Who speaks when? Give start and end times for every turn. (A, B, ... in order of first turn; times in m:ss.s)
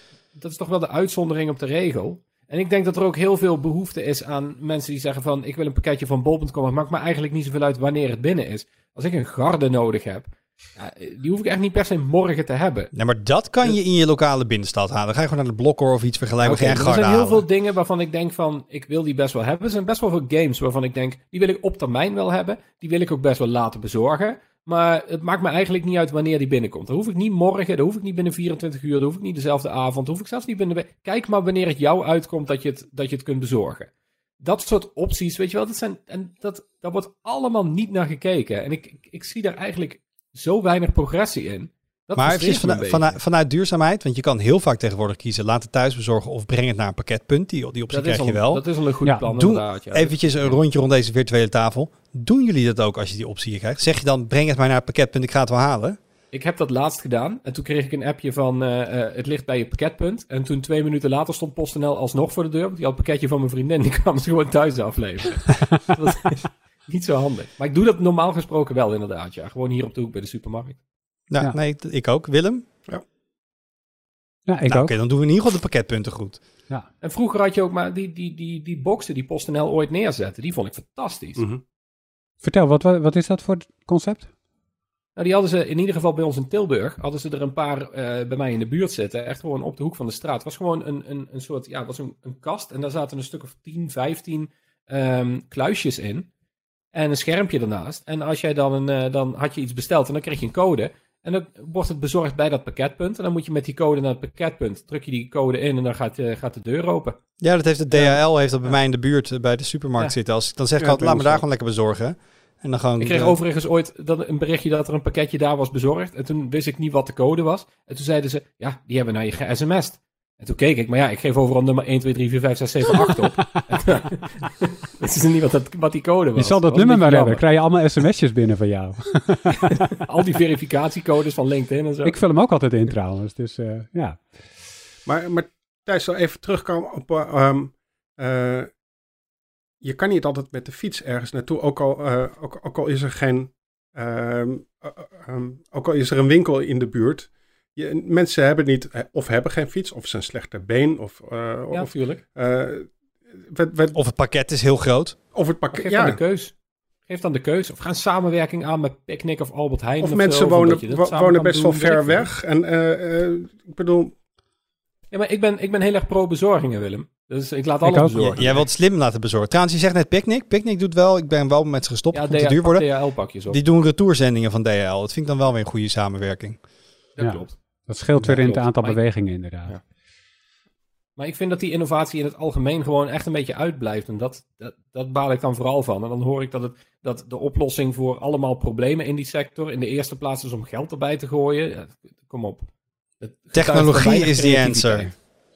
0:00.3-0:12.9 A
0:12.9-0:17.4 B
0:16.4-0:43.2 A
0:42.2-0:48.6 B
0:47.9-0:50.6 A
0:49.2-0:56.0 B
0:56.3-1:10.8 A
1:11.3-1:12.6 B
1:14.5-1:14.9 C
1:14.6-1:16.4 B
1:17.0-1:21.4 A
1:21.4-1:21.6 D
1:22.4-1:24.3 C
1:25.2-1:36.3 A
1:36.9-1:47.2 A
1:47.4-1:53.4 B
1:47.9-1:48.2 A
1:50.8-1:51.4 D
1:53.0-2:07.4 A
2:06.4-2:09.9 C
2:09.7-2:12.2 A
2:12.0-2:14.4 C
2:15.1-2:18.7 D
2:19.8-2:32.9 D
2:31.7-2:32.2 A
2:33.5-2:34.0 D
2:33.9-2:35.2 B
2:35.3-2:36.2 D
2:35.7-2:36.5 A
2:37.1-2:42.3 A
2:40.0-2:44.2 D
2:45.1-2:48.7 A
2:47.8-2:48.4 C
2:48.4-2:56.6 B
2:52.1-2:53.6 A
2:57.2-2:59.1 A
2:57.2-2:59.8 C
3:01.2-3:12.7 A
3:13.2-3:15.1 A
3:13.5-3:15.1 B